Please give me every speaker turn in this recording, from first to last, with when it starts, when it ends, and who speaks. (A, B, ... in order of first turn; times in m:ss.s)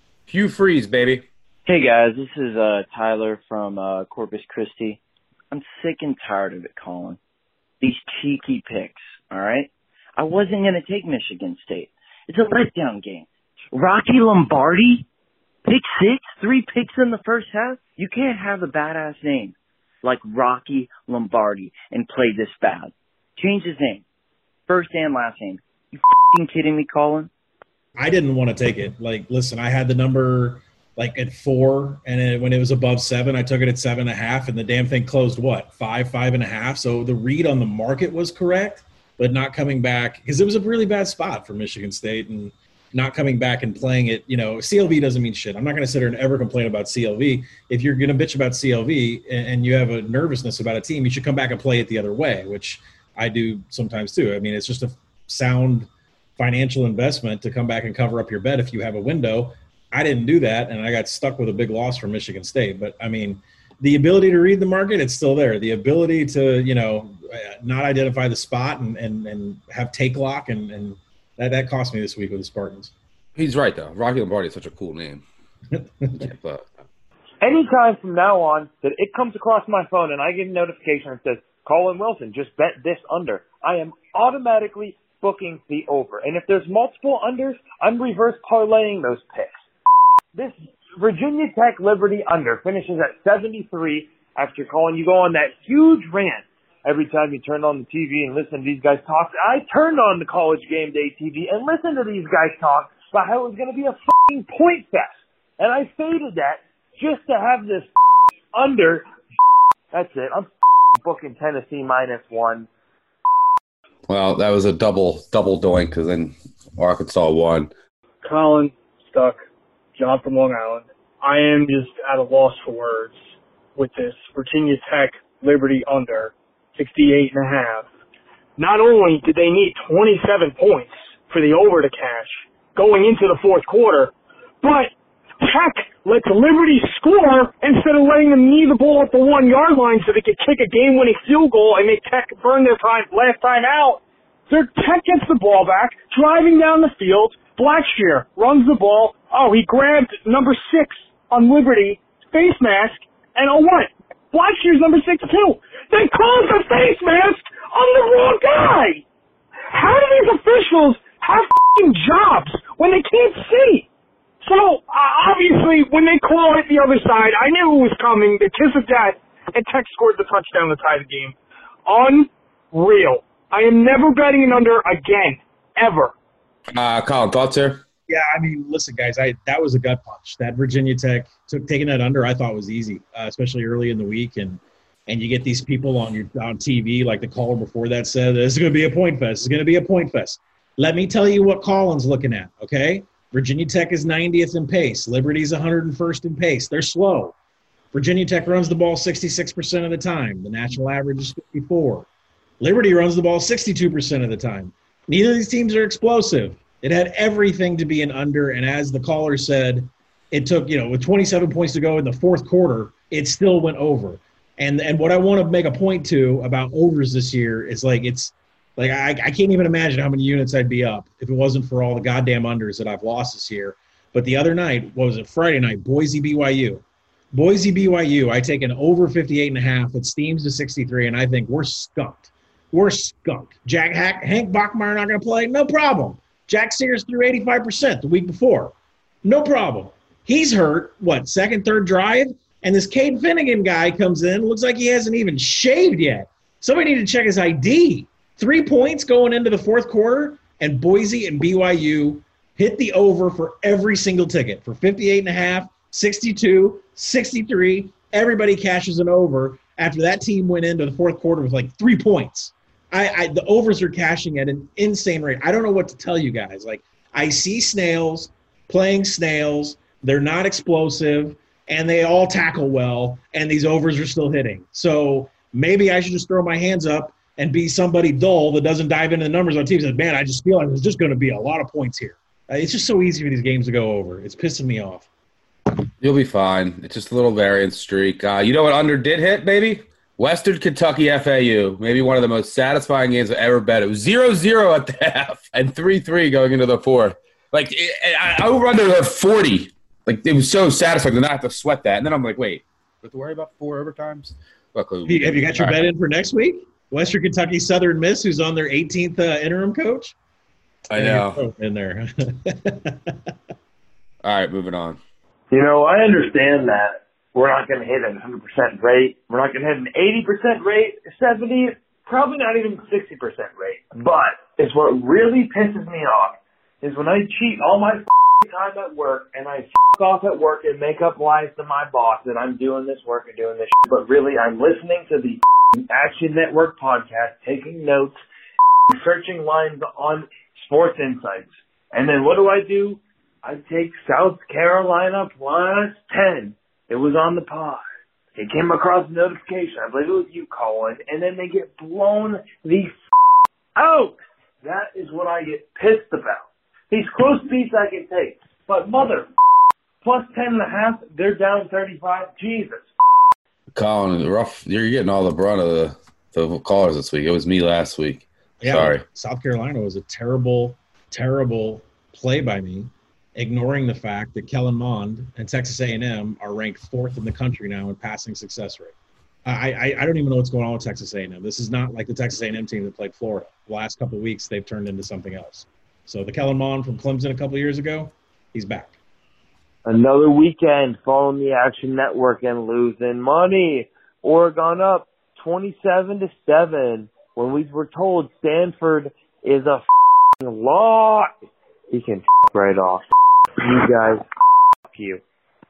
0:00.3-0:01.2 A
0:01.7-0:05.0 B
0:05.5-0:07.2 B
0:07.8-0:15.1 B
0:15.6-0:24.0 B
0:24.7-0:27.3 B
0:28.0-1:12.9 C
1:13.4-1:15.2 A
1:16.1-1:16.6 A
1:17.4-1:29.6 D
1:30.4-1:47.9 D
1:48.5-1:49.1 D
1:49.9-1:52.7 D
1:54.1-1:57.7 A
1:58.2-1:59.4 E
2:00.0-2:03.2 E
2:03.8-2:07.9 E
2:08.6-2:39.0 E
2:39.7-2:43.9 E
2:44.4-2:56.1 E
2:56.7-2:57.8 A
2:58.1-3:17.4 C
3:17.9-3:22.1 C
3:22.6-4:45.1 C
4:46.0-5:05.8 A
5:05.1-5:10.2 C
5:10.9-5:11.4 A
5:11.0-5:13.2 C
5:14.2-5:15.0 A
5:15.5-5:38.2 D
5:38.9-5:47.8 D
5:48.4-5:52.9 D
5:53.8-5:59.3 D
6:00.0-6:02.9 D
6:03.7-6:09.0 A
6:08.6-6:29.0 C
6:29.8-6:39.8 D
6:40.4-6:41.3 D
6:41.9-6:43.0 D
6:43.6-6:44.2 D
6:44.9-6:45.2 D